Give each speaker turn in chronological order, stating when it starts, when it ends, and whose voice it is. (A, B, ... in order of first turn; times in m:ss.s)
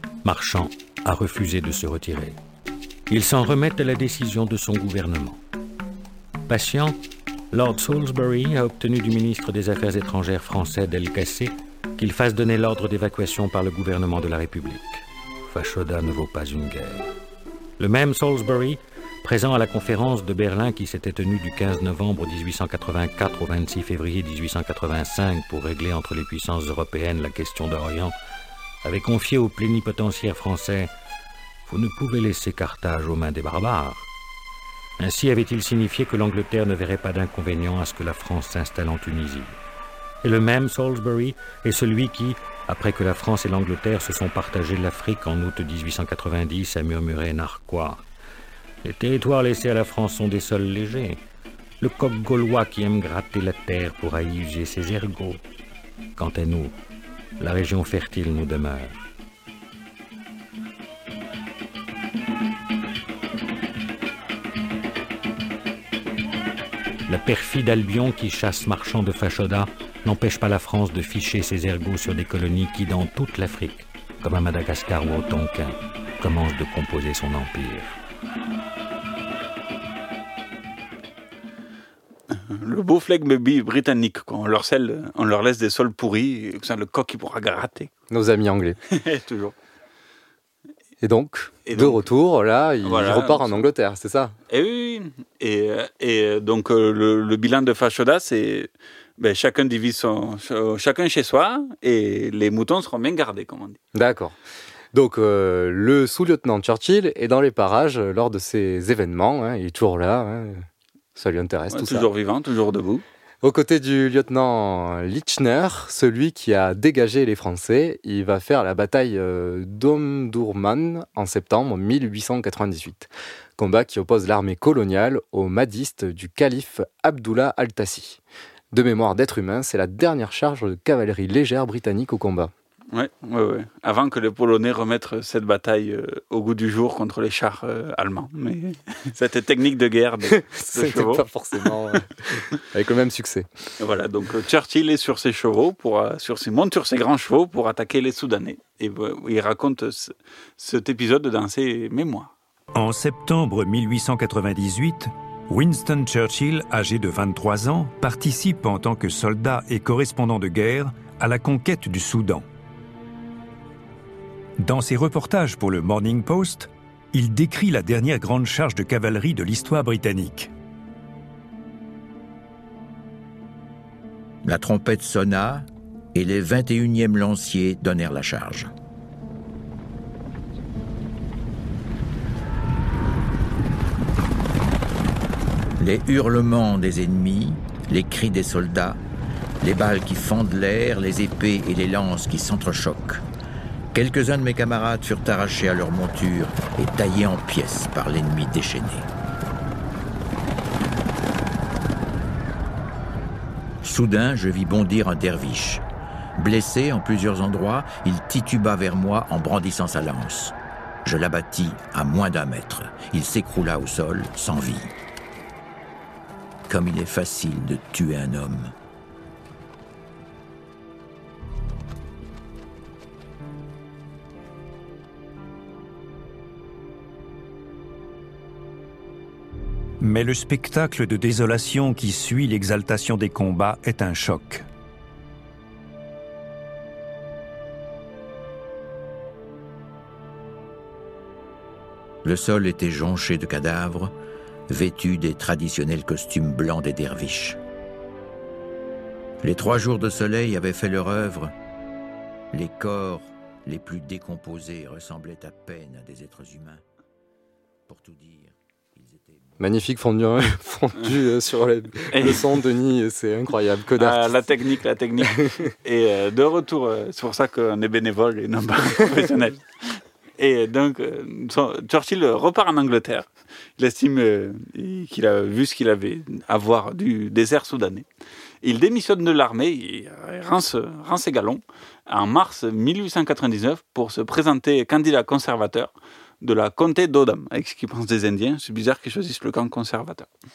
0:00.2-0:02.4 A
0:03.1-0:05.4 A
0:06.5-0:07.0 A
0:07.5-0:17.0 A
0:17.8-0:28.1 A
0:28.8-0:30.9 A
0:31.7-0:34.1 A
0:35.0-0:39.6 A
0:40.2-0:48.0 A
0:48.8-0:51.2 A
0:51.8-0:55.4 A
0:56.2-0:56.7 A
0:57.4-0:58.9 A
1:07.1-1:18.0 A
1:22.3-1:27.9 B
1:28.1-1:28.8 C
1:28.9-1:29.5 B
1:31.0-1:34.3 C
1:31.6-1:32.0 B
1:32.8-1:33.7 B
1:34.5-1:43.8 B
1:43.9-1:44.4 C
1:44.9-1:52.1 C
1:51.7-1:53.0 B
1:53.4-2:08.2 C
2:08.7-2:12.5 C
2:12.9-2:21.7 B
2:20.3-2:23.5 C
2:23.8-2:32.3 B
2:32.7-2:42.4 D
2:44.6-2:50.5 D
2:54.4-2:58.7 E
3:05.8-3:09.0 E
3:09.6-3:13.2 E
3:13.9-3:19.1 E
3:23.8-3:25.8 E
3:26.4-3:34.9 E
3:36.7-3:38.7 E
3:50.0-3:54.6 D
4:02.2-4:04.1 E
4:04.7-4:07.6 E
4:09.4-4:11.5 E
4:12.5-4:16.8 E
4:17.9-4:19.4 E
4:19.6-4:24.4 C
4:22.1-4:22.5 B
4:24.0-4:38.0 B
4:25.2-4:25.5 C
4:38.6-4:50.3 B